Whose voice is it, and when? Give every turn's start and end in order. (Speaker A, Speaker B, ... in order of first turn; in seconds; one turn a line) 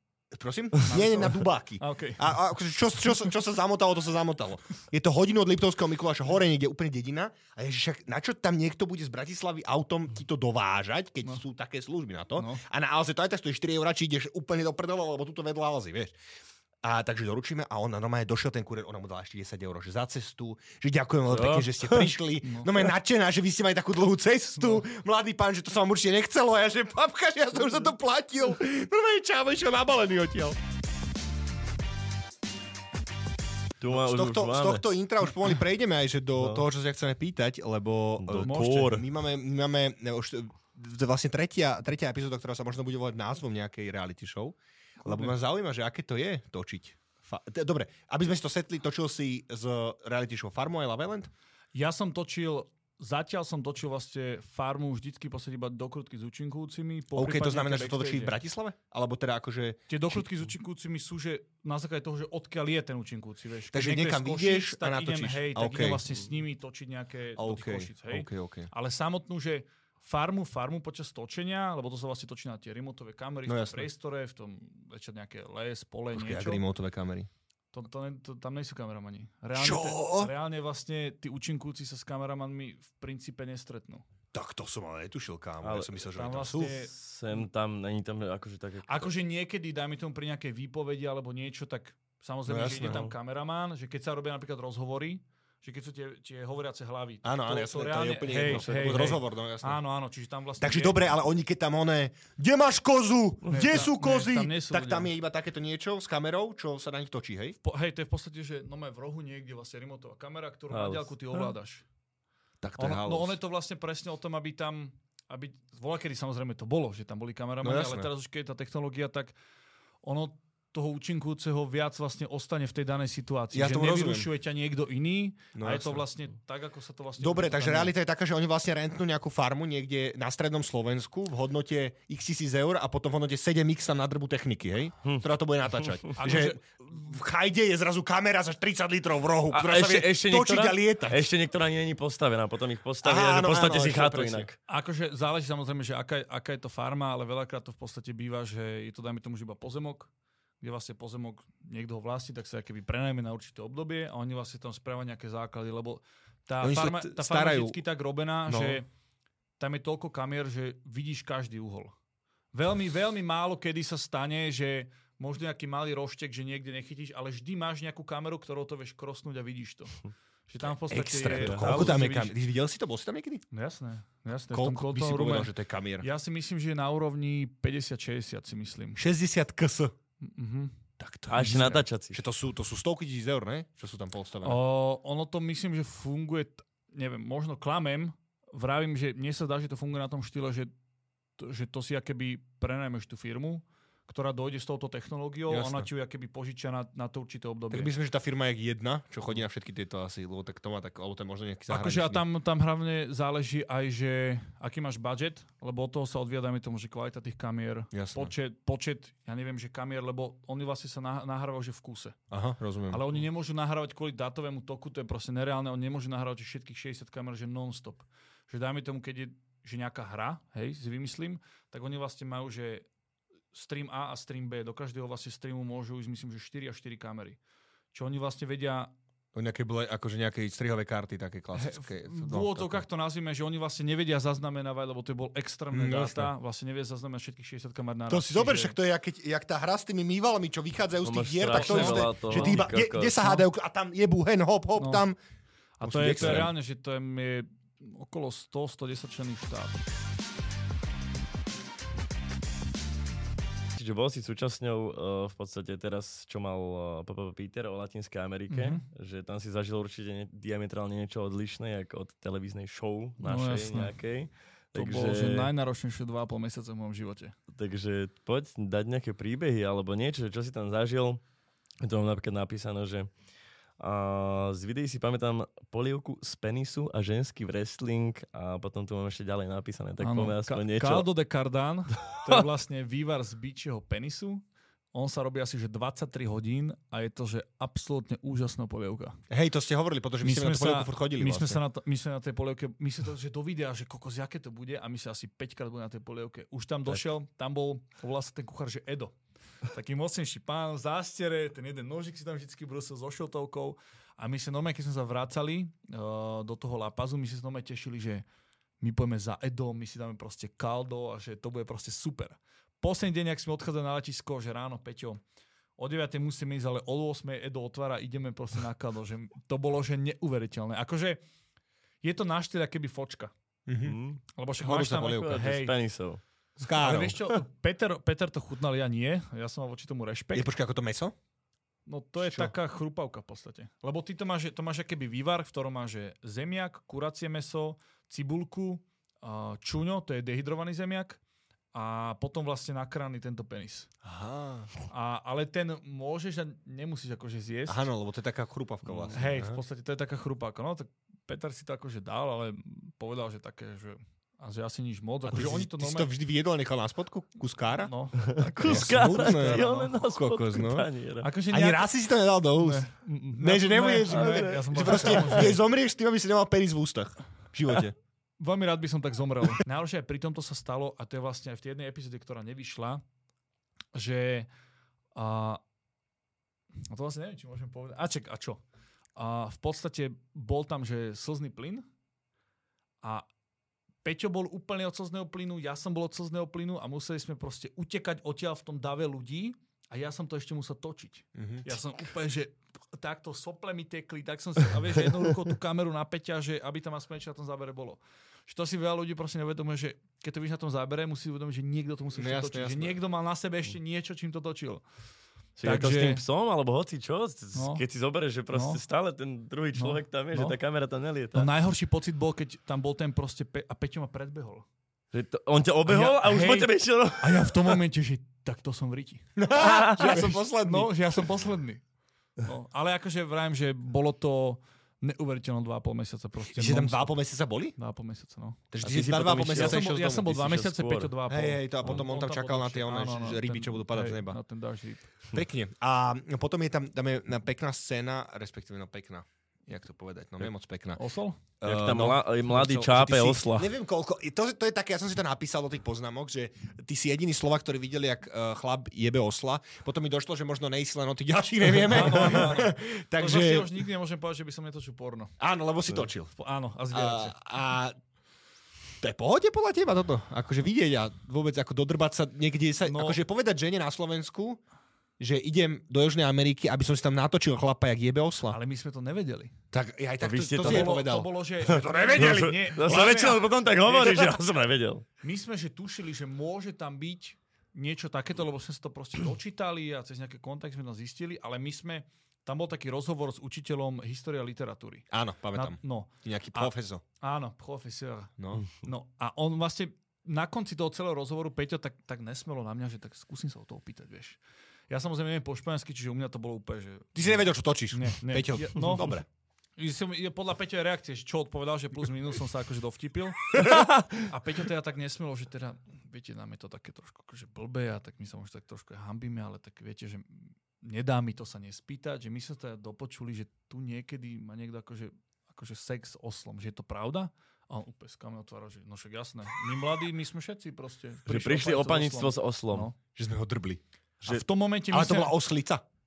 Speaker A: 0.3-16.1
Speaker B: 0.8-2.2
Speaker B: 12.3-12.6
Speaker A: 16.8-30.6
Speaker C: 21.3-22.1
Speaker B: 22.4-22.9
Speaker C: 33.8-34.9
Speaker A: 33.9-51.3
Speaker C: 36.4-36.6
Speaker C: 38.2-39.0
Speaker B: 38.3-39.0
Speaker B: 45.0-45.3
Speaker B: 51.7-58.4
Speaker A: 57.1-60.3
Speaker B: 59.9-76.6
Speaker A: 63.7-66.0
Speaker A: 67.3-68.7
Speaker A: 73.5-73.9
Speaker A: 76.1-77.3
Speaker B: 77.7-84.0
Speaker A: 79.5-80.3
Speaker A: 84.3-86.7
Speaker C: 85.6-86.0
Speaker B: 86.1-86.9
Speaker C: 86.6-89.1
Speaker B: 88.8-101.0
Speaker A: 92.5-93.1
Speaker A: 97.2-99.8
Speaker C: 98.4-99.0
Speaker A: 100.6-107.6
Speaker B: 103.5-105.1
Speaker B: 107.6-111.8
Speaker C: 110.7-111.1
Speaker A: 112.6-113.4
Speaker B: 112.8-119.3
Speaker A: 117.6-118.1
Speaker B: 120.0-127.9
Speaker A: 123.5-124.3
Speaker A: 125.5-126.0
Speaker A: 127.2-141.2
Speaker B: 136.2-136.8
Speaker C: 139.5-144.6
Speaker A: 143.0-144.5
Speaker B: 144.7-150.1
Speaker B: 150.6-158.9
Speaker A: 156.6-157.8
Speaker A: 158.4-158.8
Speaker B: 159.6-161.9
Speaker B: 162.5-172.4
Speaker A: 170.6-173.4
Speaker C: 171.3-172.0
Speaker B: 173.5-179.0
Speaker A: 174.5-176.1
Speaker A: 179.0-179.9
Speaker B: 180.2-180.7
Speaker A: 181.0-184.6
Speaker C: 181.3-182.2
Speaker B: 181.4-181.8
Speaker B: 184.4-190.7
Speaker B: 191.4-197.9
Speaker A: 195.5-195.9
Speaker A: 197.7-202.2
Speaker B: 201.7-212.2
Speaker A: 207.9-208.3
Speaker A: 212.3-213.2
Speaker B: 212.9-222.8
Speaker B: 223.5-227.4
Speaker B: 227.9-228.9
Speaker A: 229.3-232.8
Speaker B: 231.5-238.8
Speaker A: 235.7-236.3
Speaker A: 238.1-245.2
Speaker C: 241.0-243.2
Speaker B: 241.5-243.5
Speaker B: 244.8-245.1
Speaker B: 245.8-249.8
Speaker A: 245.8-246.5
Speaker C: 246.1-246.5
Speaker C: 253.7-265.5
Speaker B: 258.5-258.8
Speaker B: 263.2-264.0
Speaker B: 264.7-267.3
Speaker C: 267.5-271.2
Speaker C: 271.8-273.1
Speaker C: 273.8-281.1
Speaker B: 280.0-284.4
Speaker B: 284.9-289.1
Speaker A: 289.3-291.6
Speaker B: 290.2-308.2
Speaker B: 308.8-315.2
Speaker B: 315.8-321.2
Speaker B: 322.0-323.3
Speaker A: 323.7-324.0
Speaker C: 323.8-324.2
Speaker B: 324.4-325.8
Speaker A: 324.6-325.4
Speaker C: 325.2-326.2
Speaker A: 326.6-327.2
Speaker B: 326.8-330.5
Speaker A: 330.3-331.1
Speaker B: 331.9-341.2
Speaker A: 332.2-332.5
Speaker B: 341.7-343.9
Speaker A: 344.0-344.7
Speaker B: 344.9-347.9
Speaker A: 347.7-349.6
Speaker C: 348.8-349.1
Speaker B: 349.1-356.1
Speaker A: 355.3-357.9
Speaker B: 357.8-359.9
Speaker C: 358.3-361.3
Speaker A: 358.6-360.9
Speaker B: 361.2-361.9
Speaker A: 361.5-367.9
Speaker B: 362.6-365.6
Speaker C: 364.1-365.5
Speaker B: 368.4-373.0
Speaker B: 373.9-374.5
Speaker B: 375.1-375.6
Speaker B: 376.9-378.6
Speaker B: 379.2-381.8
Speaker B: 384.0-404.8
Speaker A: 391.3-391.7
Speaker A: 402.1-403.0
Speaker C: 405.6-411.5
Speaker B: 405.6-406.2
Speaker B: 407.5-407.8
Speaker B: 408.5-408.8
Speaker B: 409.7-410.6
Speaker B: 411.3-414.6
Speaker C: 415.1-417.6
Speaker B: 415.9-419.3
Speaker A: 419.4-420.9
Speaker C: 419.6-420.2
Speaker B: 420.0-421.8
Speaker B: 422.4-427.1
Speaker A: 426.5-427.7
Speaker B: 427.8-428.6
Speaker A: 428.7-430.4
Speaker C: 428.8-431.1
Speaker B: 429.5-435.1
Speaker A: 431.3-434.4
Speaker A: 435.3-441.0
Speaker B: 440.9-441.4
Speaker A: 441.6-453.7
Speaker C: 441.6-443.7
Speaker B: 451.9-455.3
Speaker A: 455.4-456.3
Speaker B: 456.3-457.4
Speaker A: 456.9-458.0
Speaker A: 459.0-464.6
Speaker B: 462.8-463.2
Speaker A: 465.2-468.6
Speaker B: 468.5-469.5
Speaker A: 469.7-473.4
Speaker C: 470.2-470.9
Speaker B: 470.6-474.3
Speaker C: 471.7-475.0
Speaker B: 475.2-494.4
Speaker A: 485.1-487.0
Speaker A: 488.4-488.6
Speaker B: 494.9-499.2
Speaker A: 497.1-499.2
Speaker B: 499.8-523.0
Speaker C: 521.2-522.9
Speaker A: 523.1-525.8
Speaker B: 524.3-525.4